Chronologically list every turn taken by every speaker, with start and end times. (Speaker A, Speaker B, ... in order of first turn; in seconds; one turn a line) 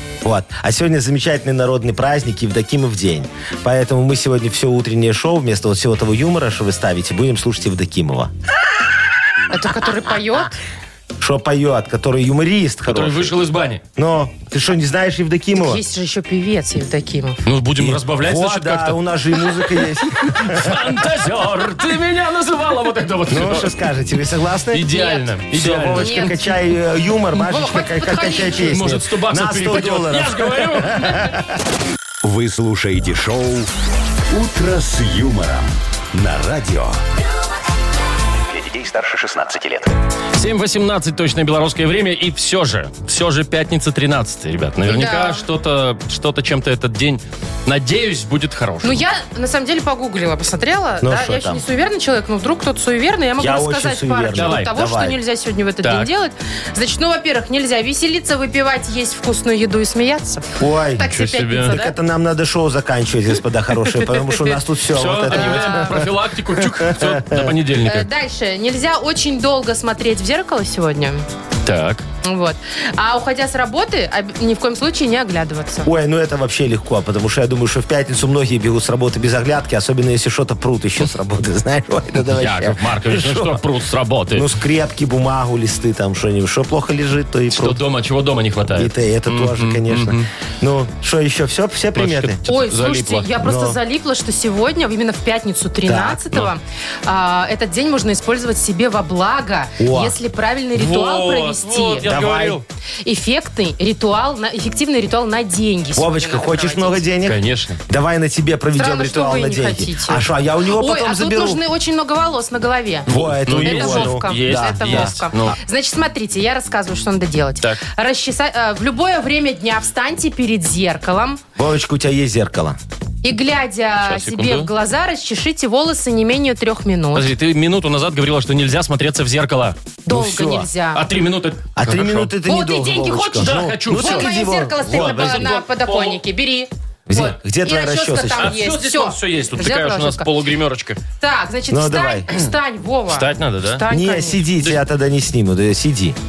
Speaker A: 0.2-8.3
Speaker B: 9.5-10.6
Speaker A: 11.2-13.3
Speaker C: 12.8-13.8
Speaker A: 13.9-15.8
Speaker B: 15.6-17.4
Speaker C: 17.4-23.7
Speaker A: 17.8-21.0
Speaker A: 23.3-24.9
Speaker C: 24.7-26.4
Speaker B: 24.9-25.3
Speaker A: 25.5-31.3
Speaker B: 25.9-26.5
Speaker B: 27.3-28.8
Speaker C: 28.7-31.3
Speaker D: 32.2-33.7
Speaker D: 34.3-37.0
Speaker D: 38.5-39.9
Speaker C: 40.4-49.0
Speaker B: 44.9-45.4
Speaker B: 48.8-62.0
Speaker A: 51.0-51.6
Speaker A: 53.4-55.2
Speaker C: 54.3-54.7
Speaker C: 55.8-56.1
Speaker A: 60.6-66.1
Speaker C: 61.1-61.7
Speaker C: 64.9-68.1
Speaker B: 65.3-66.0
Speaker A: 66.6-67.5
Speaker B: 67.8-71.2
Speaker C: 71.6-72.0
Speaker B: 72.2-75.9
Speaker A: 75.8-83.6
Speaker C: 82.3-84.5
Speaker A: 84.3-87.8
Speaker C: 87.5-90.3
Speaker A: 88.7-92.4
Speaker C: 91.9-93.3
Speaker B: 92.5-102.1
Speaker A: 93.4-93.8
Speaker A: 95.8-96.2
Speaker A: 99.8-100.2
Speaker C: 100.7-102.6
Speaker A: 102.0-102.6
Speaker B: 103.0-107.0
Speaker A: 106.0-111.6
Speaker C: 107.2-107.8
Speaker B: 108.8-121.4
Speaker A: 113.1-115.1
Speaker C: 113.1-115.6
Speaker A: 121.5-122.8
Speaker B: 123.2-127.3
Speaker C: 124.0-124.7
Speaker C: 127.1-129.8
Speaker B: 130.0-131.0
Speaker A: 130.1-130.7
Speaker C: 130.9-132.3
Speaker A: 131.8-135.6
Speaker B: 132.4-140.3
Speaker C: 133.0-134.3
Speaker C: 134.8-136.2
Speaker A: 137.1-138.6
Speaker C: 138.4-141.0
Speaker B: 141.2-144.4
Speaker A: 141.7-142.3
Speaker C: 143.1-143.8
Speaker A: 143.9-146.2